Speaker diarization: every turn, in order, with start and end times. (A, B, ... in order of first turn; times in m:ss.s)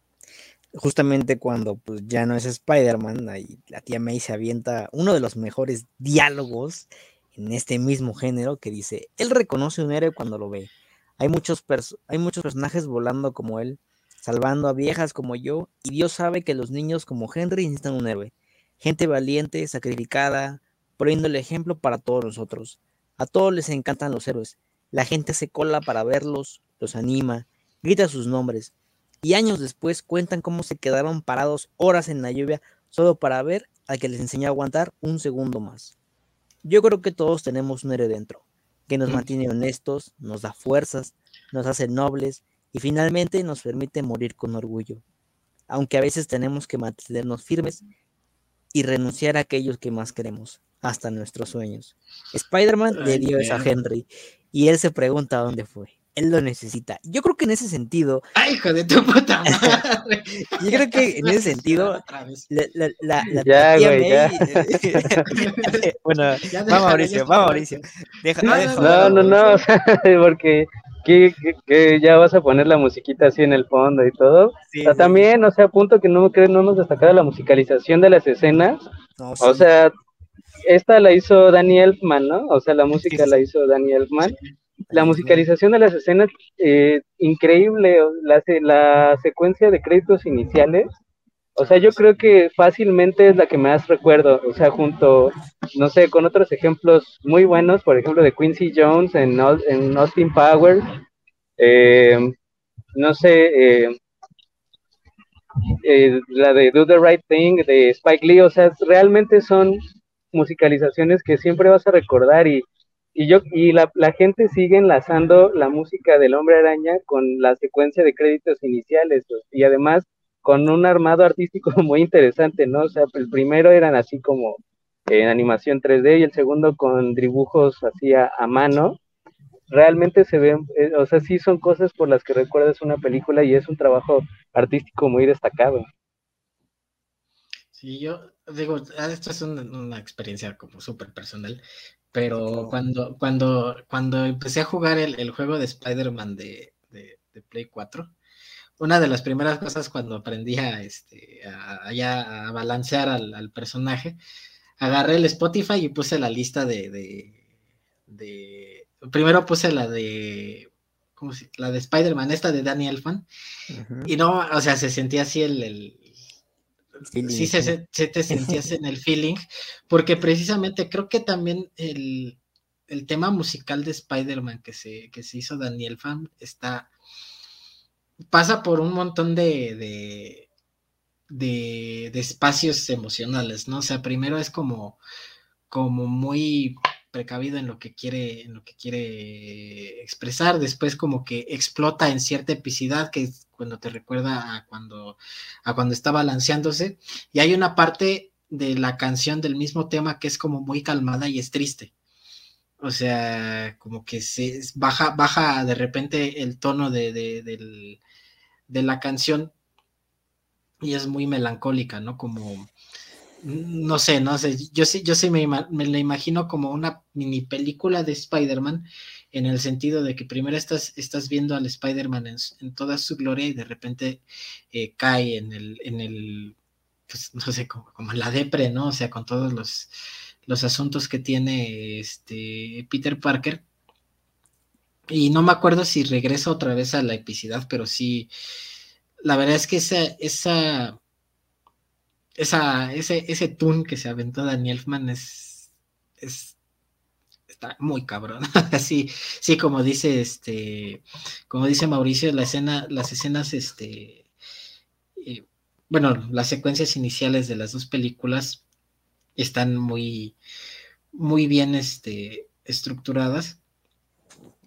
0:00.7-0:35.9 A
0:36.6-0:45.0 A
0:45.7-0:47.8 A
0:48.7-0:58.2 A
0:52.9-0:53.7 B
0:58.4-1:02.5 B
0:59.4-0:59.8 A
1:00.5-1:09.4 A
1:03.5-1:05.3 C
1:05.3-1:05.9 B
1:06.5-1:07.8 B
1:08.4-1:09.6 B
1:08.5-1:18.8 C
1:14.7-1:15.3 A
1:19.2-1:19.8 A
1:19.4-1:19.9 C
1:20.7-1:24.4 C
1:23.1-1:23.4 A
1:24.9-1:25.5 A
1:24.9-1:30.9 C
1:31.6-1:40.8 C
1:31.6-1:32.0 B
1:41.6-1:42.3 C
1:43.0-1:44.0 C
1:45.8-1:49.8 C
1:50.3-1:52.6 C
1:53.2-2:09.0 C
2:09.7-2:15.8 C
2:17.8-2:21.6 B
2:22.1-2:28.1 B
2:22.3-2:22.7 A
2:28.8-2:34.2 B
2:34.8-2:37.4 B
2:38.1-2:43.3 B
2:43.7-2:44.1 A
2:44.1-2:46.1 B
2:47.1-2:47.8 A
2:47.2-2:56.9 B
2:48.3-2:48.6 A
2:58.3-3:00.5 B
3:01.3-3:05.0 B
3:05.7-3:21.9 B
3:22.8-3:28.0 B
3:28.7-3:29.5 B
3:30.8-3:32.7 B
3:33.4-3:46.6 B
3:47.1-3:49.9 B
3:50.5-3:53.6 B
3:55.1-3:58.3 B
3:59.2-4:01.0 B
4:02.4-4:05.7 B
4:06.2-4:06.6 B
4:07.5-4:14.3 B
4:15.2-4:18.6 B
4:19.4-4:20.4 B
4:21.1-4:23.6 B